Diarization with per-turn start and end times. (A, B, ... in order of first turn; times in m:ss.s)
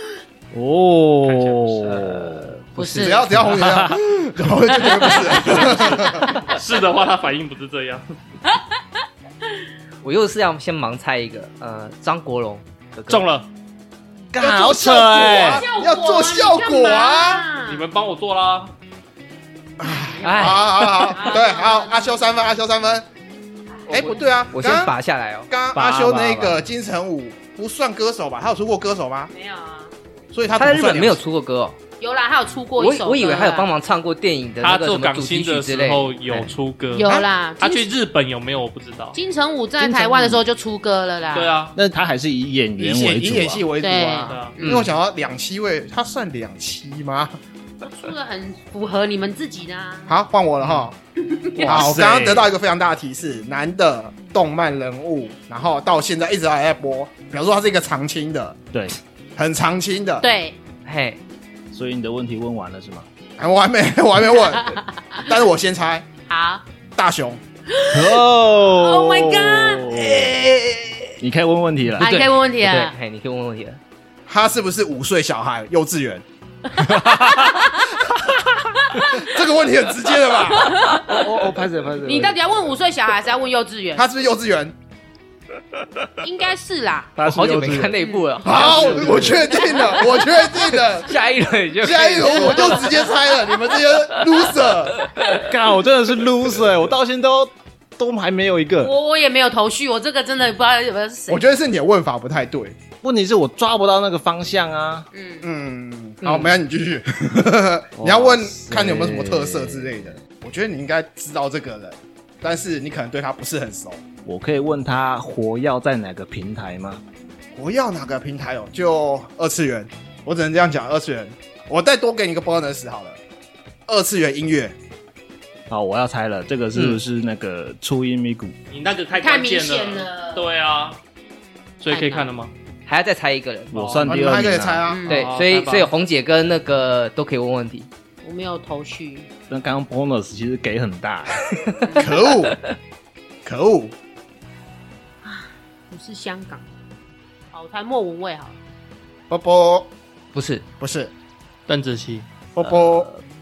0:00.5-0:02.6 A
0:01.2-0:02.1 B
0:02.2-0:03.6 C
0:02.8-0:03.2 D
0:02.8-0:06.4 E
0:03.5-0:04.0 A
0:04.8-0:06.5 D
0:06.2-0:08.0 B
0:10.0-0:13.2 C
0:13.1-0:13.5 B
0:14.3-0:15.6 A
0:14.4-0:17.5 E
0:15.2-0:17.8 D
0:17.7-0:18.7 B
0:19.8-0:23.0 E
0:20.0-0:22.2 D
0:20.2-0:20.9 C
0:23.9-0:24.9 E
0:24.5-0:26.6 C
0:25.5-0:29.3 E
0:29.3-0:29.9 D
0:30.3-0:31.2 E
0:30.6-0:31.8 C
0:32.0-0:33.7 D
0:32.8-0:36.5 C
0:34.6-0:39.2 B
0:36.9-0:37.9 D
0:39.1-0:41.6 D
0:39.8-0:40.4 A
0:41.3-0:41.8 B
0:41.7-0:43.7 A
0:42.8-0:47.4 E
0:43.8-0:44.8 D
0:44.2-0:44.6 B
0:44.6-0:44.9 C
0:47.9-0:50.1 D
0:50.1-0:50.9 E
0:51.3-0:51.8 D
0:51.6-0:52.4 A
0:51.6-0:58.6 E
0:59.4-1:00.3 E
1:00.2-1:00.6 D
1:00.8-1:01.2 C
1:01.7-1:03.0 A
1:03.4-1:06.1 E
1:04.3-1:05.4 D
1:06.3-1:06.6 D
1:07.0-1:07.4 E
1:07.7-1:10.1 D
1:07.9-1:12.1 A
1:12.0-1:13.8 C
1:12.0-1:12.9 D
1:14.3-1:16.2 E
1:16.8-1:17.5 A
1:16.8-1:17.9 D
1:19.0-1:19.3 D
1:19.0-1:20.7 E
1:20.5-1:21.4 D
1:21.0-1:22.4 A
1:22.0-1:24.1 D
1:24.0-1:24.7 E
1:26.2-1:27.1 D
1:27.1-1:28.0 A
1:27.2-1:29.8 C
1:28.0-1:28.3 D
1:28.4-1:31.1 E
1:28.5-1:29.5 A
1:29.2-1:30.3 D
1:31.0-1:33.2 C
1:31.8-1:35.0 E
1:32.3-1:33.1 D
1:35.0-1:35.4 C
1:35.3-1:38.9 A
1:38.8-1:41.4 D
1:41.3-1:42.8 E
1:43.0-1:45.1 A
1:45.1-1:45.4 D
1:45.4-1:54.0 E
1:46.2-1:46.5 C
1:48.0-1:50.0 A
1:54.2-1:57.0 A
1:57.5-2:03.2 E
2:03.9-2:04.7 E
2:05.7-2:08.5 A
2:06.7-2:07.0 C
2:08.7-2:11.0 B
2:09.1-2:10.4 D
2:11.8-2:12.5 B
2:11.9-2:12.3 D
2:12.8-2:13.9 C
2:13.7-2:14.9 A
2:13.7-2:14.1 B
2:14.0-2:15.0 E
2:14.8-2:15.3 D
2:15.0-2:15.9 B
2:15.1-2:17.9 C
2:18.2-2:19.3 D
2:19.5-2:21.8 A
2:21.8-2:22.1 D
2:22.0-2:22.6 E
2:23.4-2:23.9 E
2:25.2-2:26.6 D
2:27.5-2:28.6 D
2:29.3-2:29.9 E
2:30.3-2:30.6 C
2:30.8-2:31.1 E
2:31.7-2:32.3 B
2:32.6-2:33.1 E
2:32.6-2:33.2 C